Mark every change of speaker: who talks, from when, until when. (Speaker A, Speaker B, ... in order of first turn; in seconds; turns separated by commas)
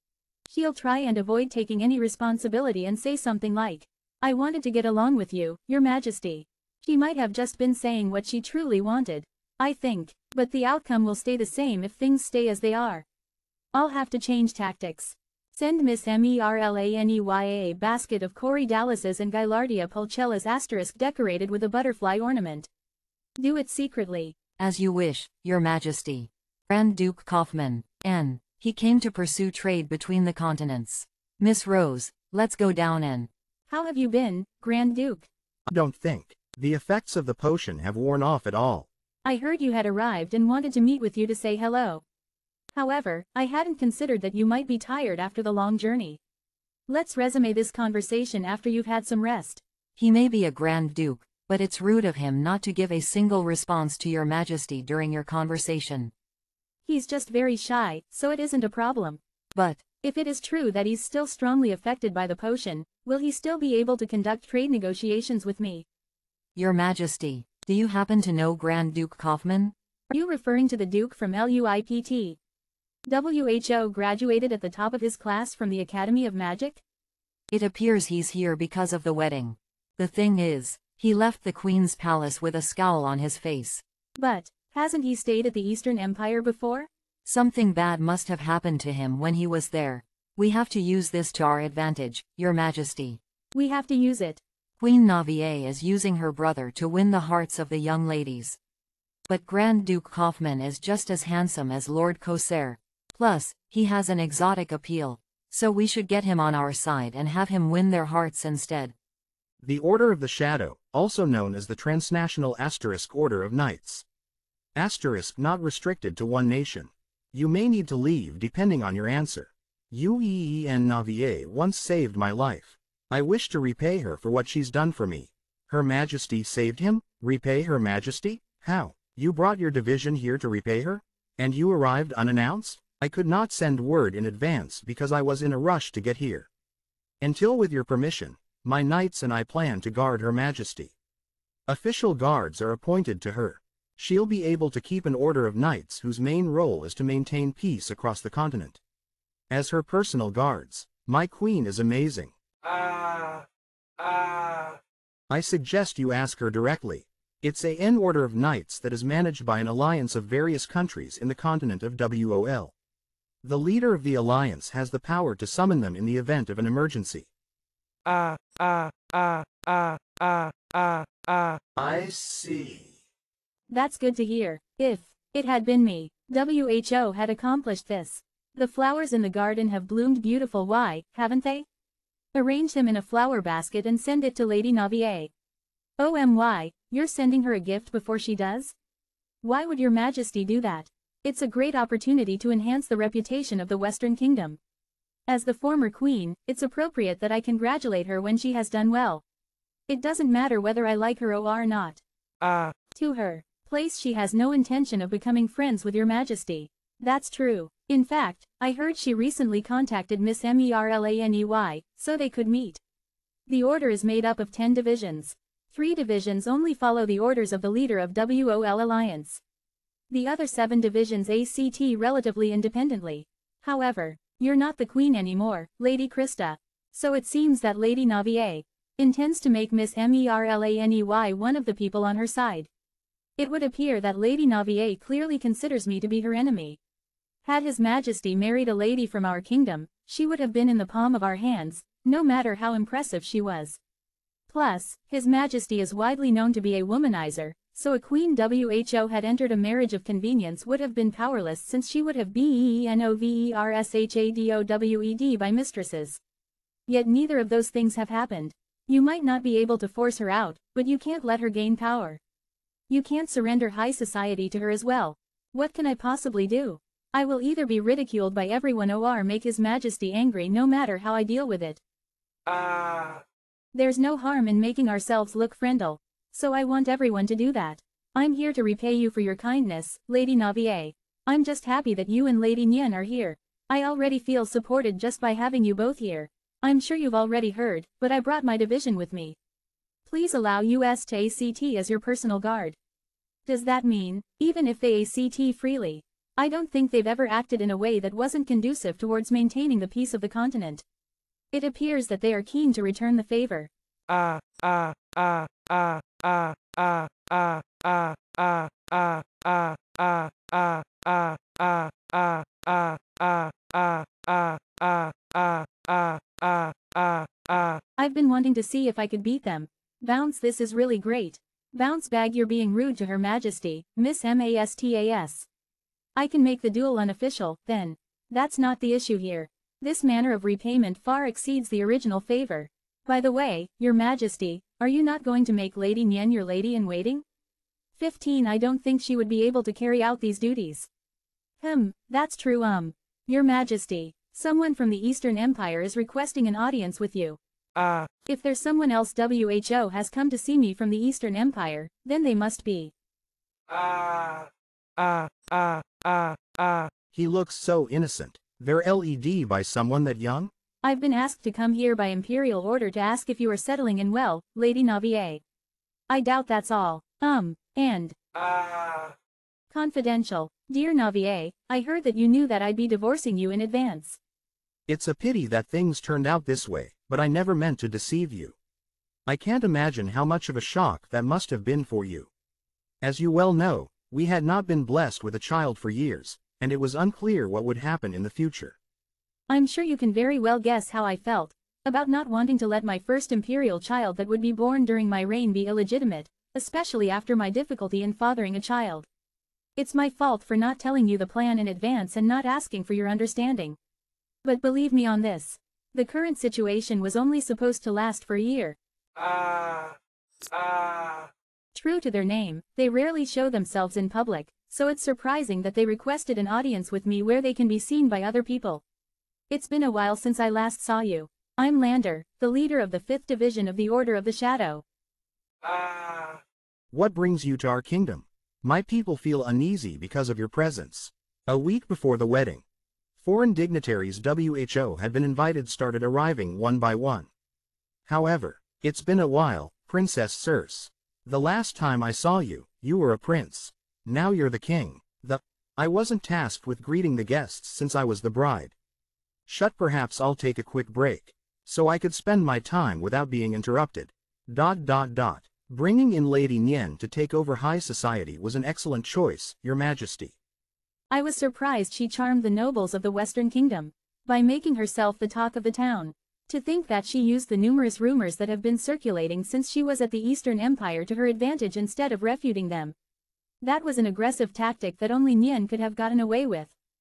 Speaker A: 0.5-13.1, Speaker A: 13.7-22.7, Speaker A: 23.4-24.4, Speaker B: 24.6-33.3, Speaker A: 33.7-35.3, Speaker C: 35.7-38.9, Speaker A: 39.2-42.0, Speaker A: 42.8-46.2, Speaker A: 46.9-49.6, Speaker B: 50.0-56.1, Speaker A: 56.9-59.2, Speaker B: 59.5-59.9, Speaker A: 60.0-65.9, Speaker B: 66.6-69.7, Speaker A: 70.1-72.4, Speaker A: 73.1-76.8, Speaker B: 77.5-83.8, Speaker A: 84.2-86.9, Speaker B: 87.3-93.2, Speaker A: 93.5-94.4, Speaker B: 94.8-98.6, Speaker B: 99.3-108.9, Speaker C: 109.6-114.0, Speaker C: 114.8-136.5, Speaker C: 137.2-140.9, Speaker C: 141.7-148.8, Speaker C: 149.5-152.3, Speaker D: 152.6-153.4, Speaker D: 154.0-154.8, Speaker C: 155.3-162.7, Speaker C: 163.4-167.3, Speaker D: 168.1-171.6, Speaker C: 171.8-173.0, Speaker A: 173.7-181.7, Speaker A: 182.3-185.3, Speaker A: 186.0-188.8, Speaker A: 189.4-194.6, Speaker A: 195.3-199.2, Speaker A: 199.9-202.0, Speaker D: 202.4-202.8, Speaker A: 202.9-212.8, Speaker A: 213.5-219.4, Speaker A: 220.1-232.7, Speaker A: 233.4-236.8, Speaker A: 237.4-243.8, Speaker A: 244.5-256.2, Speaker A: 256.9-262.2, Speaker A: 262.9-271.8, Speaker D: 272.5-273.2, Speaker A: 273.7-289.4, Speaker A: 290.1-292.8, Speaker A: 293.5-300.8, Speaker A: 301.5-303.7, Speaker D: 304.1-317.8, Speaker A: 318.0-325.5, Speaker A: 326.2-337.2, Speaker A: 338.0-340.9, Speaker A: 341.6-347.4, Speaker D: 347.8-348.1, Speaker A: 348.3-352.9, Speaker D: 353.7-356.9, Speaker C: 357.1-360.5, Speaker A: 360.8-365.4, Speaker A: 366.1-368.1, Speaker D: 368.4-369.1, Speaker A: 369.7-374.2, Speaker C: 374.9-378.6, Speaker C: 379.3-382.3, Speaker C: 383.0-388.8, Speaker A: 389.5-399.1, Speaker A: 399.8-403.8, Speaker A: 404.4-408.8, Speaker D: 409.2-411.3, Speaker A: 411.8-418.8, Speaker A: 419.5-424.8, Speaker D: 425.6-426.4, Speaker C: 426.9-432.6, Speaker C: 433.2-437.3, Speaker C: 438.1-448.7, Speaker C: 449.5-460.3, Speaker A: 461.1-472.9, Speaker A: 473.6-476.7